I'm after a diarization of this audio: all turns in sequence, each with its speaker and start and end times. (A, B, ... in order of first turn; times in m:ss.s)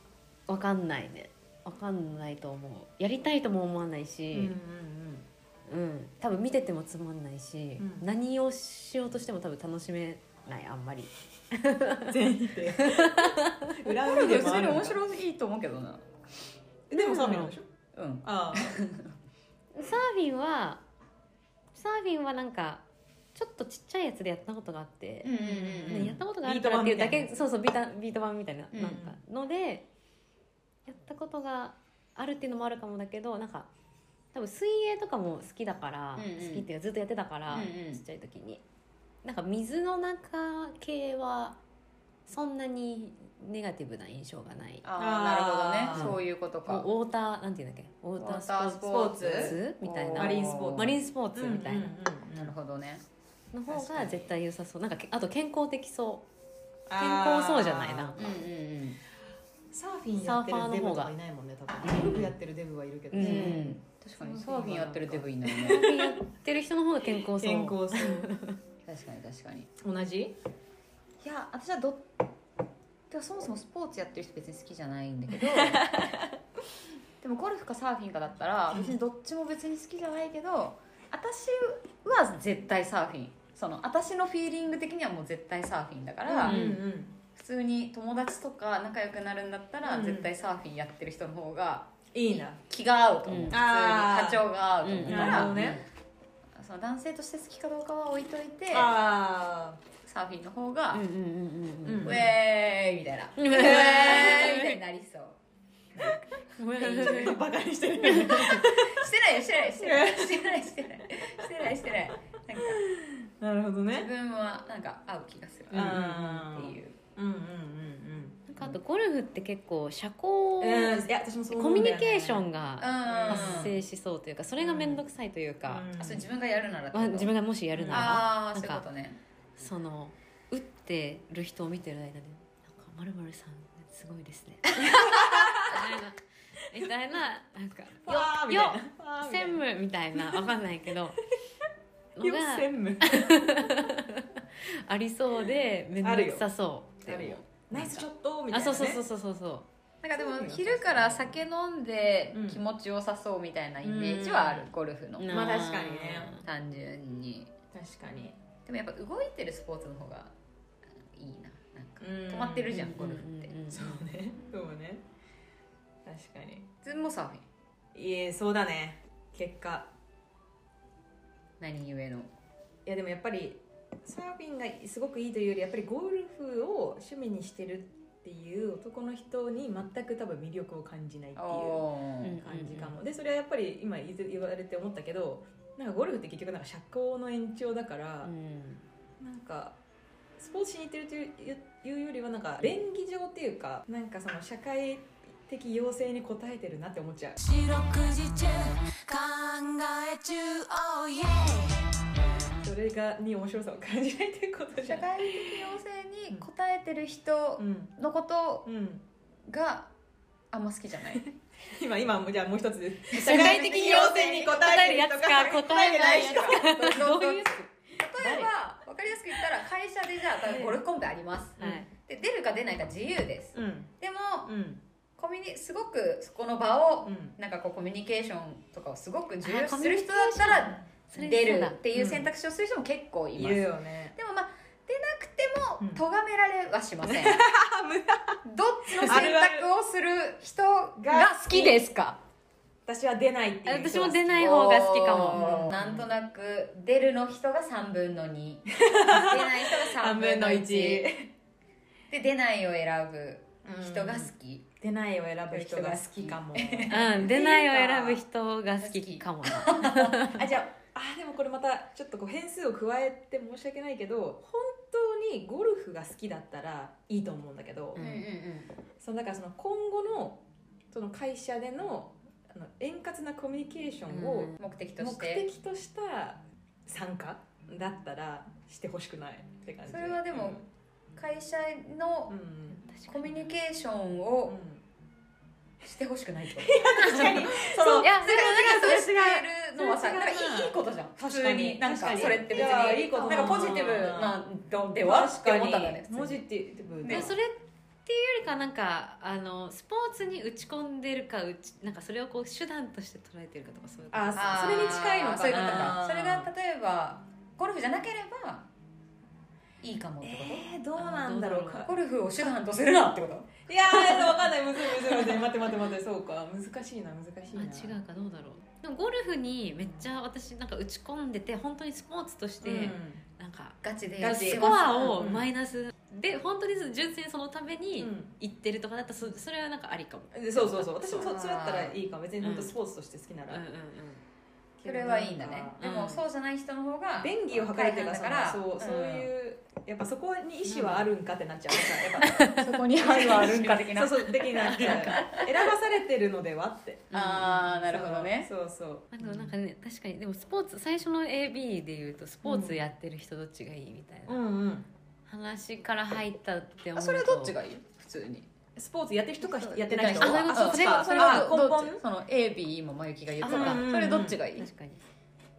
0:00.5-0:04.5 A
0:04.3-0:05.3 B
0:05.7-0:12.2 A
0:07.8-0:08.1 B
0:12.0-0:15.0 B
0:12.8-0:13.8 A
0:14.0-0:16.0 C
0:16.9-0:17.7 B
0:16.9-0:17.5 A
0:17.9-0:19.1 C
0:18.2-0:18.7 B
0:19.7-0:20.8 A
0:21.7-0:22.8 A
0:23.3-0:29.8 A
0:25.2-0:26.2 C
0:25.8-0:27.4 B
0:28.7-0:29.0 C
0:28.8-0:29.2 B
0:30.8-0:33.7 A
0:34.3-0:38.6 A
0:36.2-0:36.6 C
0:37.5-0:38.0 C
0:39.2-0:41.6 A
0:42.3-0:44.8 A
0:44.8-0:46.8 C
0:45.0-0:46.2 B
0:45.9-0:52.0 A
0:48.2-0:50.9 C
0:48.8-0:49.5 B
0:50.1-0:52.5 B
0:52.3-0:53.0 C
0:53.5-0:56.2 A
0:53.7-0:54.2 B
0:56.9-0:58.4 B
0:56.9-0:58.3 A
0:58.2-0:59.0 C
0:59.7-1:03.7 B
1:00.2-1:01.1 A
1:01.9-1:02.3 A
1:03.1-1:08.6 A
1:03.2-1:05.9 C
1:05.5-1:06.1 B
1:07.2-1:08.3 B
1:08.8-1:09.7 C
1:09.8-1:10.4 B
1:11.2-1:12.2 C
1:13.1-1:15.9 C
1:17.2-1:26.6 C
1:26.2-1:27.2 B
1:26.4-1:26.8 A
1:27.3-1:31.9 C
1:29.8-1:30.3 B
1:32.1-1:32.6 B
1:32.6-1:35.8 C
1:33.3-1:33.6 A
1:33.5-1:35.8 B
1:34.8-1:35.8 A
1:36.5-1:38.9 C
1:38.7-1:39.8 B
1:40.0-1:41.0 C
1:40.9-1:42.3 A
1:41.8-1:42.2 B
1:42.0-1:45.4 C
1:43.4-1:44.8 A
1:45.9-1:46.2 B
1:46.6-1:47.4 A
1:46.8-1:47.4 C
1:46.8-1:49.1 B
1:48.0-1:48.7 A
1:48.0-1:52.8 C
1:49.8-1:50.5 B
1:52.6-1:54.1 B
1:53.9-1:57.0 C
1:55.7-1:58.8 B
1:58.5-2:05.9 A
2:00.6-2:02.5 B
2:02.8-2:03.7 C
2:03.1-2:03.8 B
2:04.6-2:05.0 B
2:05.6-2:06.3 B
2:06.0-2:07.3 C
2:06.9-2:08.8 A
2:07.7-2:08.2 B
2:07.9-2:09.2 C
2:09.6-2:21.2 A
2:14.8-2:15.9 B
2:18.1-2:20.5 B
2:22.2-2:29.6 A
2:22.2-2:23.9 B
2:26.0-2:26.5 B
2:27.0-2:29.0 B
2:30.0-2:35.3 C
2:30.1-2:31.4 B
2:32.3-2:32.6 B
2:33.8-2:34.7 B
2:35.2-2:36.4 A
2:35.3-2:36.3 B
2:36.4-2:37.5 C
2:37.7-2:38.4 B
2:38.6-2:40.3 C
2:41.1-2:43.6 C
2:42.0-2:42.7 B
2:42.7-2:44.0 A
2:43.7-2:45.0 B
2:46.0-2:46.7 B
2:46.8-2:47.4 C
2:47.9-2:49.9 B
2:51.6-2:52.3 C
2:52.8-3:01.8 B
3:01.4-3:02.4 C
3:02.2-3:02.9 A
3:02.4-3:08.3 B
3:08.2-3:08.8 A
3:09.2-3:09.8 B
3:10.4-3:17.4 B
3:17.4-3:22.0 D
3:22.6-3:25.6 B
3:24.8-3:28.7 C
3:27.6-3:28.0 B
3:28.6-3:29.0 B
3:29.5-3:29.9 C
3:30.5-3:31.3 C
3:31.1-3:36.7 B
3:33.1-3:34.8 C
3:33.1-3:37.6 A
3:35.9-3:44.5 C
3:38.2-3:38.5 A
3:40.4-3:40.8 B
3:41.6-3:41.9 A
3:43.5-3:43.9 B
3:44.4-3:44.8 B
3:45.2-3:57.4 C
3:47.0-3:47.3 B
3:49.4-3:51.8 A
3:51.9-3:52.3 B
3:53.4-3:54.1 B
3:57.1-3:58.4 B
3:58.4-4:02.2 C
3:59.0-3:59.7 B
4:01.0-4:01.8 B
4:02.8-4:04.5 B
4:03.6-4:05.8 A
4:04.4-4:11.1 C
4:05.3-4:06.1 B
4:08.8-4:11.3 B
4:12.1-4:14.6 C
4:13.6-4:14.3 B
4:14.8-4:18.2 B
4:15.5-4:17.5 C
4:16.9-4:20.5 A
4:18.8-4:20.3 C
4:20.2-4:28.0 B
4:28.0-4:28.2 A
4:28.0-4:28.7 C
4:29.0-4:40.6 B
4:34.1-4:34.5 A
4:34.6-4:35.4 C
4:39.8-4:42.3 C
4:42.3-4:42.8 B
4:42.7-4:43.5 A
4:43.1-4:44.6 C
4:44.5-4:44.8 B
4:45.8-4:56.4 C
4:46.6-4:49.0 B
4:47.0-4:49.4 A
4:49.7-4:54.4 B
4:53.2-4:54.0 A
4:55.0-4:57.3 B
4:57.0-4:57.3 C
4:57.1-4:57.5 A
4:58.0-5:05.0 A
5:04.1-5:06.5 B
5:04.3-5:08.7 C
5:05.6-5:05.9 A
5:09.8-5:10.7 C
5:10.2-5:11.9 B
5:11.0-5:11.9 A
5:11.8-5:14.3 C
5:13.7-5:18.0 B
5:17.5-5:30.9 A
5:22.6-5:23.2 B
5:23.8-5:25.3 C
5:24.2-5:25.5 B
5:28.0-5:28.3 B
5:30.3-5:33.6 B
5:31.0-5:32.0 C
5:32.4-5:32.7 A
5:33.5-5:34.2 A
5:34.8-5:35.8 B
5:34.8-5:39.3 C
5:35.8-5:36.2 A
5:37.2-5:42.4 B
5:40.6-5:41.1 A
5:41.9-5:45.5 C
5:42.2-5:43.6 A
5:43.0-5:47.1 B
5:44.6-5:45.5 A
5:47.1-5:47.9 A
5:47.1-5:48.5 C
5:47.9-5:49.5 B
5:49.1-5:54.4 A
5:52.4-5:52.8 B
5:54.3-5:54.9 B
5:55.3-5:57.6 A
5:56.9-5:58.5 C
5:58.8-6:02.0 B
5:59.4-6:04.7 C
6:00.0-6:01.5 A
6:03.4-6:04.4 B
6:03.4-6:05.0 A